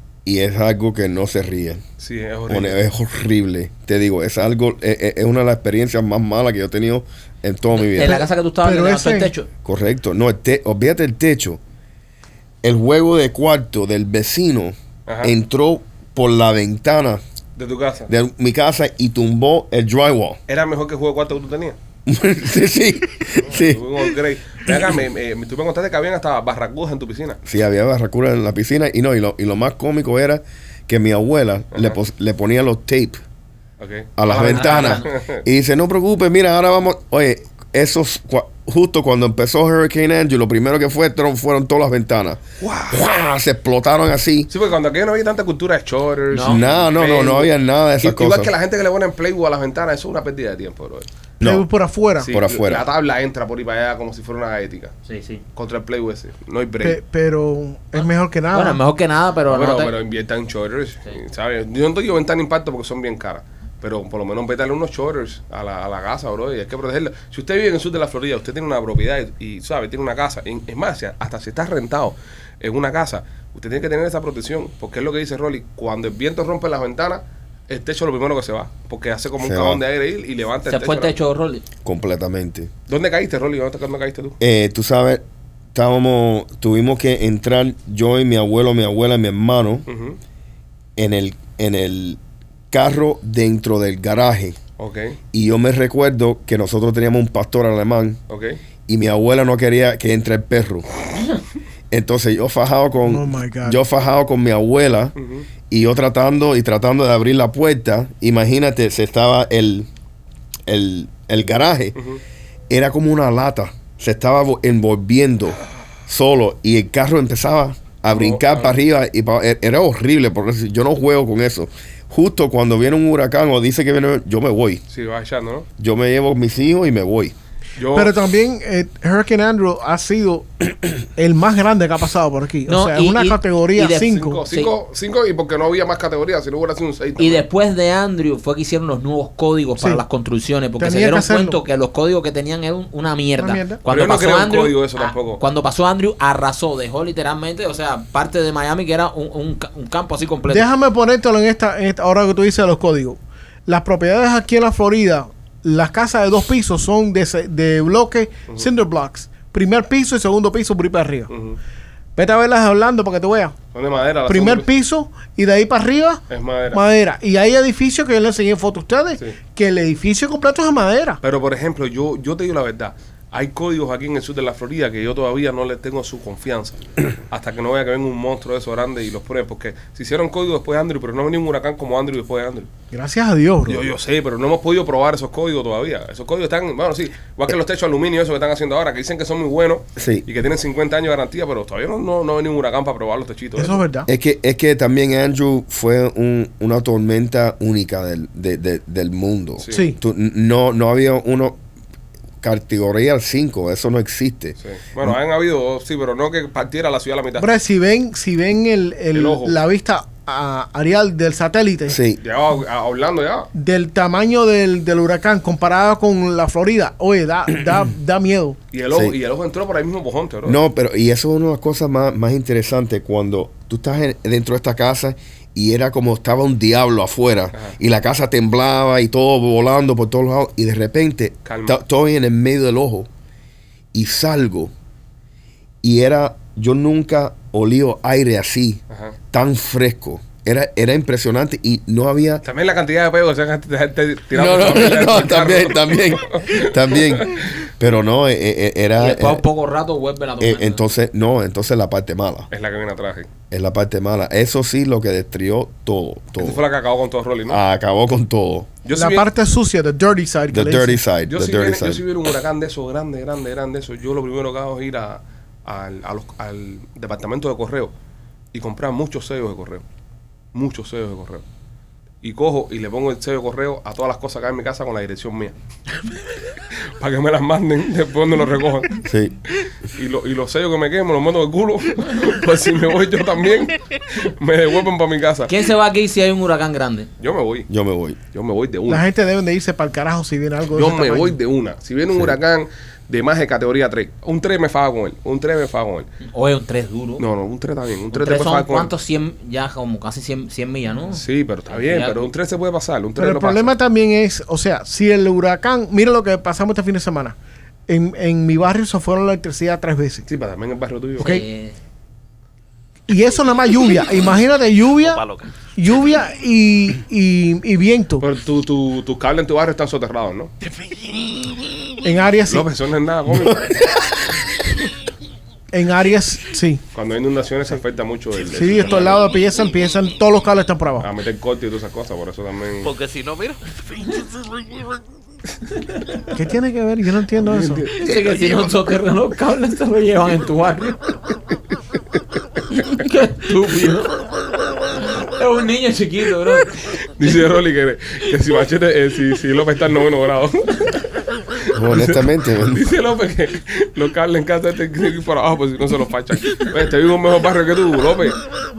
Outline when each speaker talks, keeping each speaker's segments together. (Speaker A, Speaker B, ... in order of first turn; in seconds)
Speaker A: 0.2-1.8, 2.5-8.2, 9.6-11.6, 12.6-17.2, 18.1-20.4, 22.1-24.1, 27.4-33.2, 34.2-44.5, 46.4-48.5, 51.4-51.6, 52.3-52.9, 79.4-79.8, 81.8-82.7, 84.4-85.2, 85.7-89.8, 91.0-92.2, 92.7-94.6, 95.3-98.2, 98.9-100.9, 101.9-105.1, 105.7-109.9, 110.7-112.0, 112.7-124.8, 125.8-127.3, 190.0-190.2, 194.1-201.6, 202.4-205.2, 211.9-212.2, 220.4-233.1, 233.9-234.7, 235.8-238.8, 239.3-242.4, 244.3-249.4, 250.4-252.5, 253.5-256.6, 257.5-258.7, 260.5-262.0, 279.0-279.4, 287.7-288.2, 323.4-324.2, 351.7-352.8
Speaker B: 2.0-2.8, 15.1-15.3, 17.6-18.1, 20.5-21.8, 23.4-27.4, 31.7-32.0, 33.8-35.4, 42.6-43.0, 44.5-47.5, 48.0-51.1, 52.2-54.9, 55.5-57.0, 59.5-81.1, 82.9-84.4, 89.9-90.2, 94.8-95.2, 98.3-98.6, 105.2-105.5, 112.0-112.2, 118.1-118.7, 124.9-125.7, 127.8-128.2, 134.1-137.4, 143.9-145.4, 161.3-161.6, 163.7-164.7, 166.3-166.8, 171.2-182.7, 183.7-193.8, 199.6-199.9, 204.6-207.5, 209.1-209.6, 212.2-213.5, 218.7-220.6, 231.4-231.8, 238.9-239.2, 242.4-247.4, 252.5-253.3, 256.4-257.6, 258.8-259.3, 261.3-267.9, 268.5-269.8, 270.5-271.4, 272.2-275.5, 277.0-279.0, 279.5-285.5, 287.2-287.7, 288.3-289.1, 290.7-296.1, 297.2-298.9, 301.1-303.7, 310.3-311.4, 318.2-320.5, 322.5-323.7, 326.9-329.2, 331.0-332.9, 337.4-338.7, 346.9-351.0, 351.7-358.4
Speaker C: 7.7-9.5, 34.3-35.1, 46.3-46.6, 55.0-55.4, 57.9-59.9, 80.7-81.6, 132.7-134.7, 137.2-150.7, 249.0-250.8, 285.5-287.1, 296.2-297.2, 298.1-302.3, 311.2-311.8, 337.9-341.0, 342.8-344.2, 345.1-346.8
Speaker D: 8.0-9.3, 51.4-52.3, 56.8-58.8, 103.0-103.8, 127.9-134.4, 140.8-141.6, 143.4-143.8, 150.5-161.3, 162.2-163.6, 164.3-171.2, 182.9-183.9, 193.6-194.1, 199.7-200.0, 207.4-212.0, 213.5-218.6, 258.9-261.0, 288.9-291.4, 303.2-307.4, 307.9-310.2, 313.1-315.2, 315.7-318.2, 322.0-322.7, 325.7-326.8, 328.5-331.1, 336.3-337.8
Speaker E: 315.0-315.5, 332.8-334.2